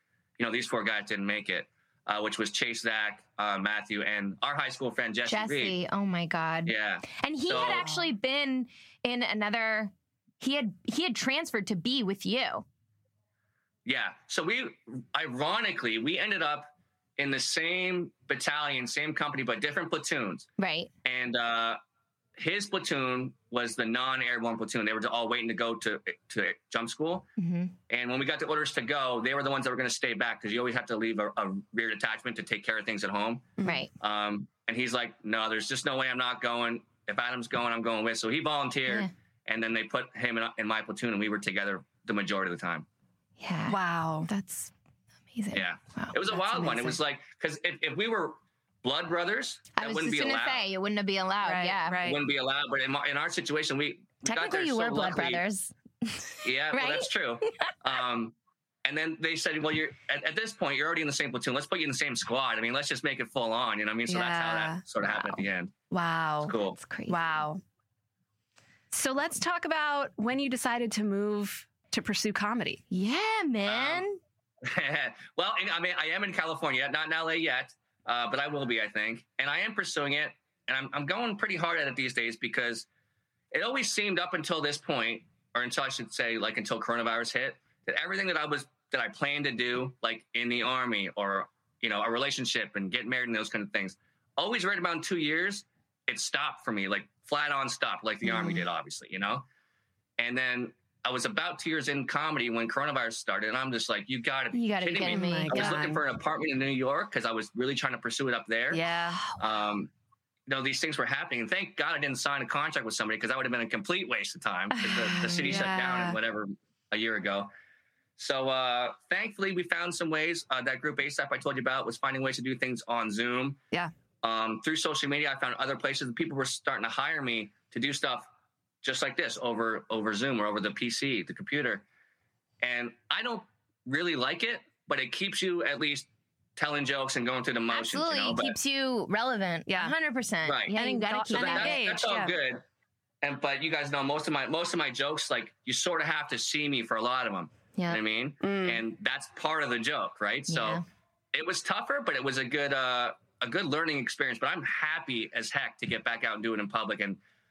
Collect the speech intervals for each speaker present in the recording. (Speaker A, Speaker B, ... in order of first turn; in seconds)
Speaker A: 0.4-5.8, 6.7-7.9, 13.8-20.5, 21.1-21.8, 22.4-27.3, 27.9-42.9, 45.5-50.6, 52.0-55.4, 56.4-65.7, 66.4-66.8, 73.7-74.1, 74.6-82.9, 83.5-99.5, 100.2-108.8, 109.3-109.9, 110.5-117.5, 118.2-123.6, 124.2-128.3, 128.8-131.8, 132.6-138.6, 140.5-142.6, 143.2-150.8, 151.3-157.2
Speaker B: 5.3-12.7, 20.6-20.9, 27.4-27.7, 33.6-33.9, 43.4-44.7, 45.3-47.0, 49.8-52.0, 54.2-57.7, 66.8-67.4, 72.9-74.2, 104.5-105.8, 115.1-115.5, 137.7-141.8, 147.8-148.0, 150.5-150.8
Speaker C: 7.6-8.0, 43.7-44.3, 51.4-52.2, 64.1-64.8, 65.9-66.6, 67.1-67.6, 68.9-72.8, 105.0-106.0, 108.7-109.2, 114.8-116.2, 139.7-139.9, 140.7-142.3, 148.4-148.8